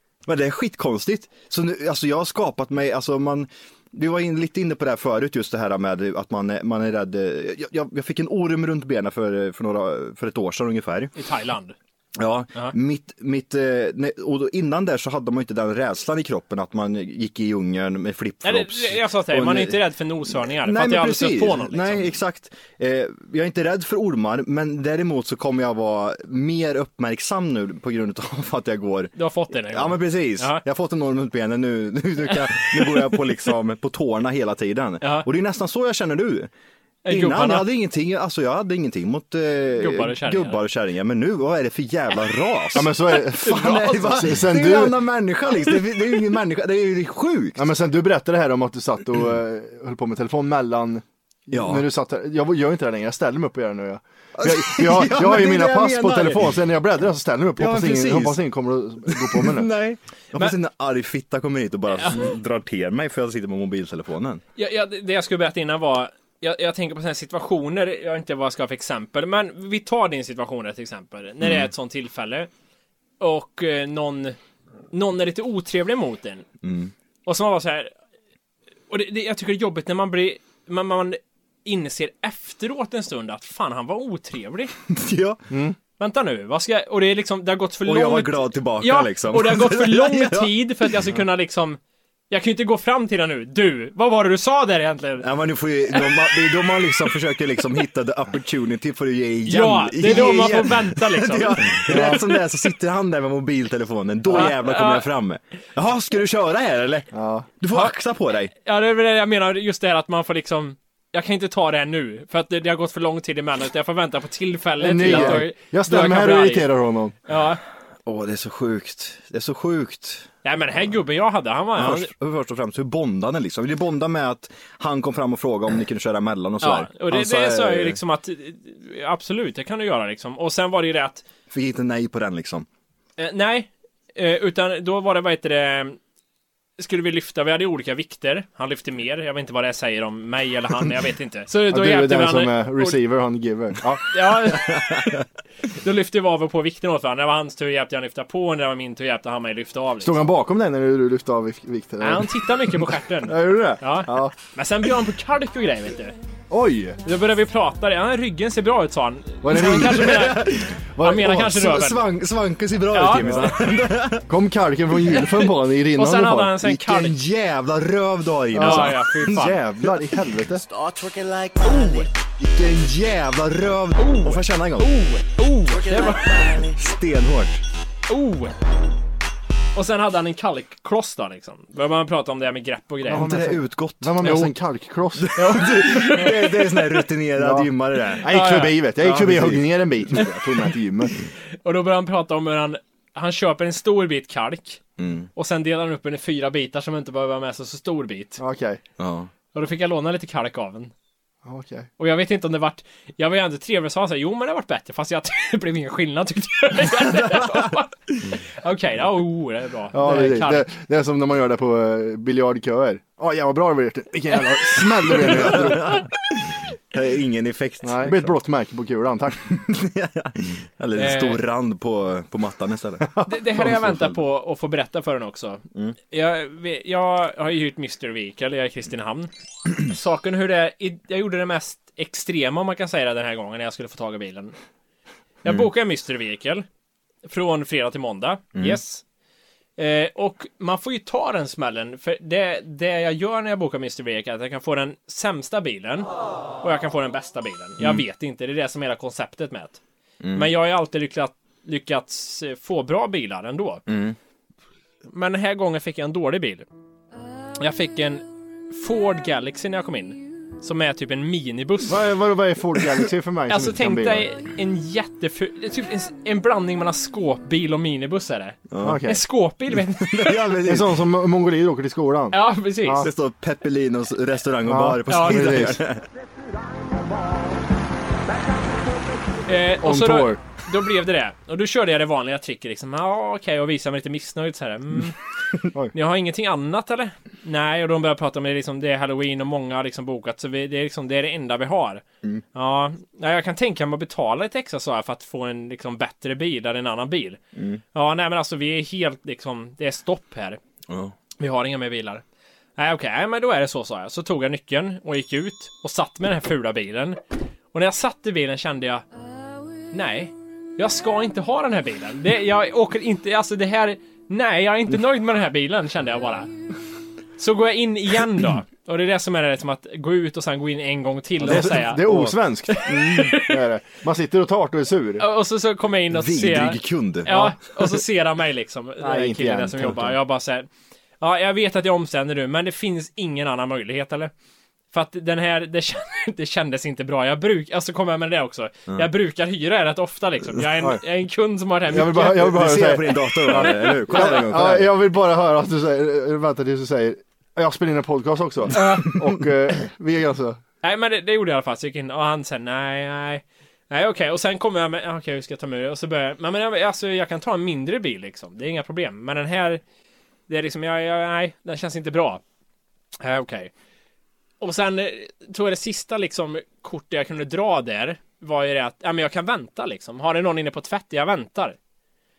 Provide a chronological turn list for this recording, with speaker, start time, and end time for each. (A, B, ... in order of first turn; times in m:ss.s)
0:00.2-0:11.1 A
0:11.2-0:11.7 B
0:12.2-0:36.5 A
0:18.4-0:22.1 B
0:29.2-0:30.6 B
0:32.6-0:33.2 B
0:35.0-0:35.3 B
0:37.0-0:37.7 B
0:37.1-0:47.6 A
0:39.8-0:40.6 B
0:42.7-0:45.0 C
0:47.6-0:59.7 C
0:51.5-0:51.8 A
0:54.3-0:56.6 A
0:57.6-0:58.4 A
0:59.1-1:04.4 A
1:01.9-1:02.2 B
1:04.6-1:12.5 B
1:11.4-1:11.7 A
1:13.2-1:14.4 B
1:14.9-1:16.4 B
1:16.6-1:16.9 A
1:17.2-1:17.9 B
1:18.9-1:24.7 B
1:24.9-1:25.4 A
1:25.5-1:25.8 C
1:26.0-1:31.8 B
1:27.8-1:30.5 A
1:32.3-1:35.2 B
1:35.2-1:48.5 A
1:35.9-1:36.4 B
1:39.5-1:42.2 B
1:41.9-1:42.2 C
1:44.3-1:45.0 B
1:47.1-1:47.5 C
1:48.6-1:56.7 B
1:54.8-1:57.1 C
1:55.0-1:55.4 A
1:57.3-1:57.6 B
1:58.0-2:00.3 A
2:00.4-2:02.1 B
2:01.7-2:08.0 A
2:06.6-2:11.2 B
2:11.5-2:12.6 A
2:13.2-2:16.0 B
2:16.8-2:23.0 B
2:21.7-2:24.1 C
2:24.1-2:30.3 B
2:24.7-2:25.2 A
2:30.0-2:34.3 C
2:32.0-2:36.1 B
2:36.5-2:37.0 C
2:37.0-2:42.0 B
2:39.4-2:40.4 C
2:39.5-2:44.2 A
2:42.9-2:43.6 B
2:43.2-2:43.5 C
2:44.3-2:46.5 C
2:45.1-2:47.2 B
2:46.6-2:50.0 A
2:48.5-2:50.6 C
2:48.6-2:49.5 B
2:50.8-2:51.7 A
2:51.6-2:52.1 B
2:52.4-2:55.0 A
2:54.0-2:56.6 B
2:55.8-2:57.6 A
2:58.1-2:58.6 B
2:59.7-3:03.2 B
3:03.1-3:04.4 A
3:03.1-3:05.3 C
3:04.2-3:04.5 B
3:05.2-3:08.2 A
3:05.3-3:06.6 B
3:07.4-3:11.1 C
3:08.3-3:08.8 B
3:09.0-3:10.2 A
3:11.6-3:14.8 B
3:15.0-3:15.3 A
3:15.4-3:18.4 B
3:18.4-3:18.8 C
3:19.0-3:19.3 A
3:19.5-3:20.9 B
3:21.4-3:21.9 C
3:22.0-3:30.7 B
3:29.9-3:36.0 C
3:35.1-3:38.4 A
3:35.3-3:36.0 B
3:37.8-3:39.5 C
3:39.4-3:44.2 A
3:41.0-3:41.4 B
3:43.2-3:49.3 B
3:49.8-3:54.6 B
3:55.4-3:56.6 B
3:57.2-3:59.0 B
3:59.8-4:06.1 B
4:06.6-4:09.8 B
4:07.8-4:08.0 A
4:10.2-4:10.5 A
4:10.3-4:13.8 B
4:13.9-4:14.2 A
4:15.1-4:16.6 B
4:17.6-4:22.0 B
4:21.9-4:24.2 C
4:23.5-4:30.4 B
4:28.7-4:29.0 A
4:28.8-4:29.2 C
4:29.8-4:31.0 A
4:30.6-4:33.1 C
4:32.3-4:33.1 B
4:33.0-4:36.0 A
4:34.7-4:35.8 C
4:35.1-4:35.4 B
4:39.5-4:45.2 B
4:39.8-4:40.4 C
4:45.9-4:52.0 B
4:52.5-4:57.4 B
4:57.5-4:57.8 A
4:57.9-5:00.6 B
5:00.9-5:01.1 A
5:01.4-5:02.2 B
5:02.8-5:07.2 B
5:07.7-5:09.0 B
5:09.9-5:16.5 B
5:17.4-5:22.0 B
5:21.4-5:22.4 A
5:21.4-5:25.2 C
5:22.7-5:23.5 B
5:25.2-5:30.7 B
5:26.1-5:27.8 A
5:29.0-5:30.2 C
5:31.2-5:34.3 B
5:34.9-5:42.5 B
5:41.9-5:50.6 C
5:42.2-5:44.9 A
5:43.5-5:44.5 B
5:48.7-5:49.1 B
5:50.8-5:59.8 B
6:00.5-6:02.4 B
6:03.2-6:03.7 B
6:04.6-6:11.8 B